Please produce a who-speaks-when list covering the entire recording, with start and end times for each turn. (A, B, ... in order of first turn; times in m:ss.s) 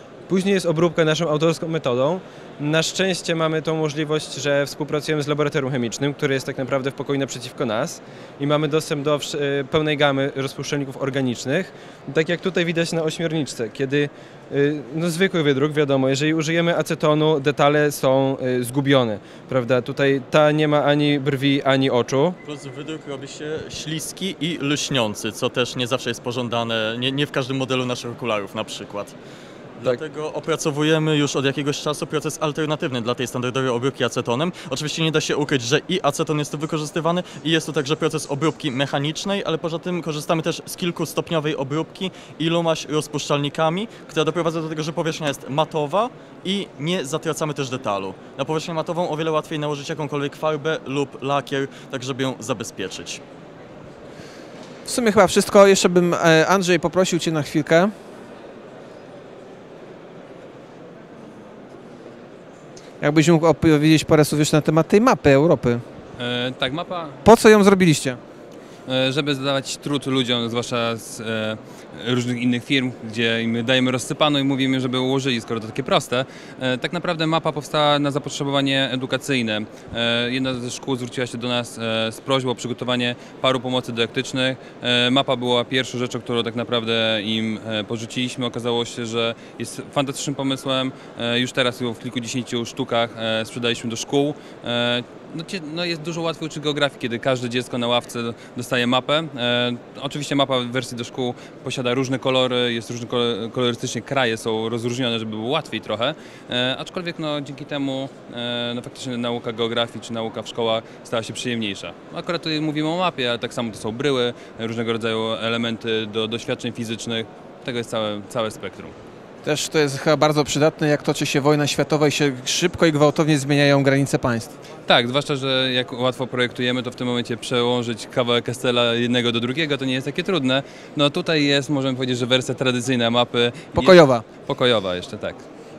0:00.3-0:22.4 A
0:22.4-0:29.2 B
0:29.8-0:53.2 B
0:54.9-0:57.9 C
1:03.0-1:05.8 C
1:06.2-1:07.2 D
1:07.2-1:08.2 C
1:08.9-1:58.9 D
1:59.4-2:04.5 C
2:04.9-2:15.5 D
2:13.8-2:14.2 C